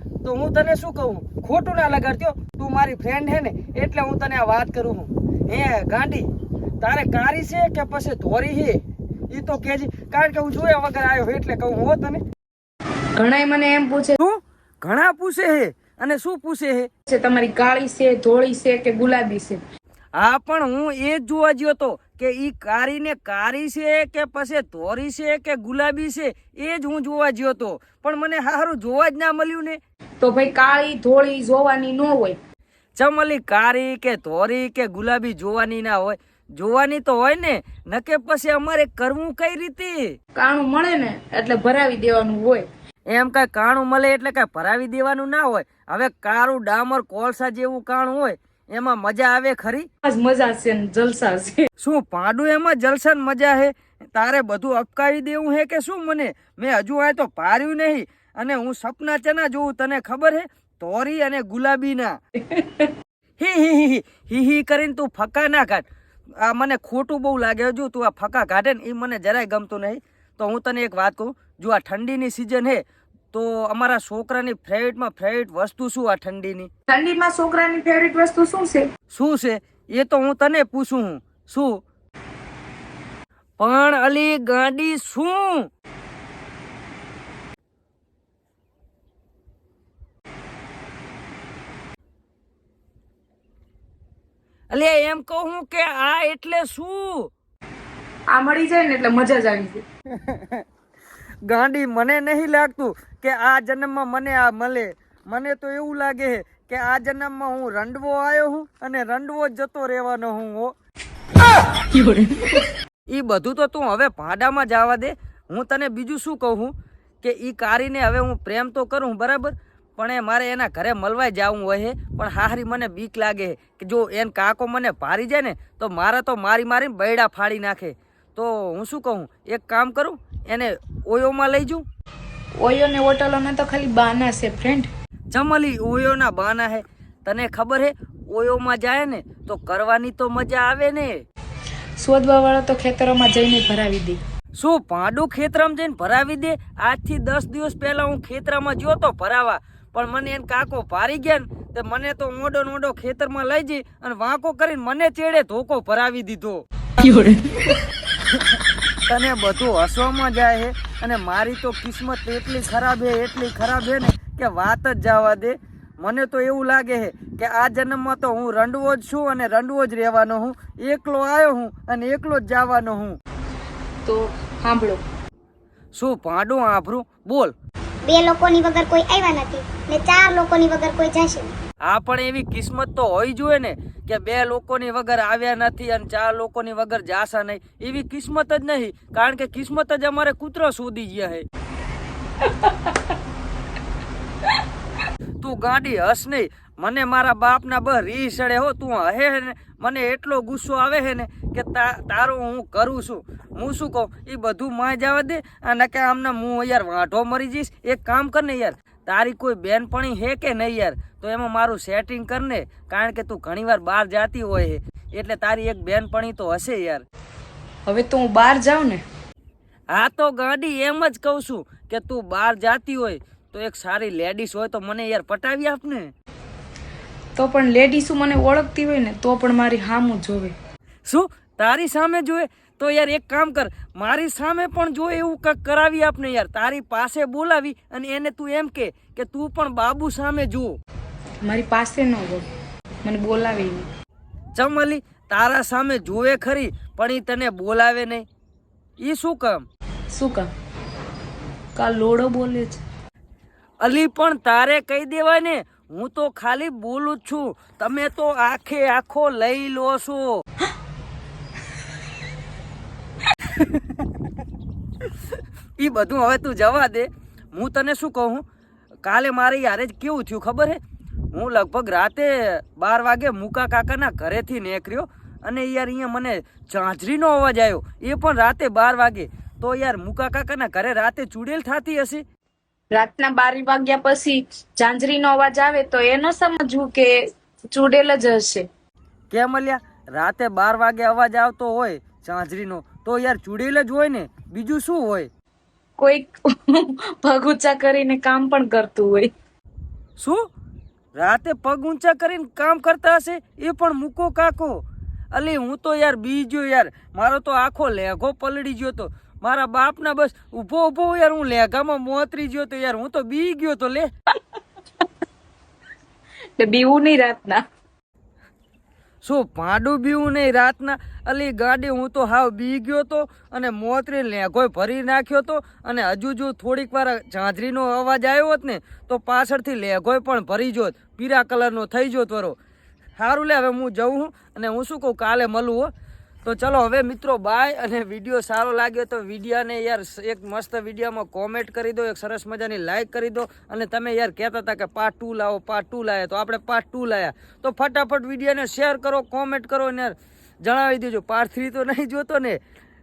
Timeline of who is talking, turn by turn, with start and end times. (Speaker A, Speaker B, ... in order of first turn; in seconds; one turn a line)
Speaker A: 0.2-6.3
Speaker A: 6.8-12.2
Speaker B: 13.2-14.2
Speaker A: 14.2-16.9
Speaker B: 17.1-19.6
Speaker A: 20.2-29.8
Speaker B: 30.2-32.4
Speaker A: 33.0-40.2
Speaker B: 40.4-42.7
Speaker A: 43.1-49.9
Speaker B: 50.0-51.6
Speaker A: 51.8-62.2
Speaker B: 62.5-62.9
Speaker A: 63.4-65.8
Speaker A: 66.4-76.7
Speaker B: 76.9-78.9
Speaker A: 79.1-81.8
Speaker A: 83.6-85.7
Speaker A: 94.7-97.3
Speaker B: 98.3-99.8
Speaker A: 100.2-100.6
Speaker A: 101.5-110.7
Speaker A: 113.1-131.8
Speaker B: 132.6-134.9
Speaker A: 135.3-141.2
Speaker B: 142.0-144.2
Speaker A: 144.6-156.7
Speaker A: 158.3-173.2
Speaker B: 174.0-175.0
Speaker A: 175.9-177.5
Speaker C: 178.1-181.5
Speaker A: 181.8-191.5
Speaker A: 195.4-217.1
Speaker B: 217.9-219.0
Speaker A: 219.9-226.1
Speaker B: 227.4-230.6
Speaker A: 231.1-240.8
Speaker B: 241.4-242.4
Speaker B: 243.0-243.9
Speaker A: 244.6-248.3
Speaker A: 249.0-249.7
Speaker B: 250.1-250.5
Speaker B: 251.8-252.8
Speaker A: 253.8-260.4
Speaker A: 265.8-268.4
Speaker A: 269.1-270.8
Speaker A: 271.3-282.2
Speaker B: 282.9-287.2
Speaker B: 287.7-288.7
Speaker A: 289.3-295.3
Speaker B: 296.0-299.3
Speaker A: 300.2-300.5
Speaker A: 301.2-314.1
Speaker B: 316.6-317.6
Speaker A: 319.2-332.6
Speaker A: 333.2-335.9
Speaker A: 336.4-352.6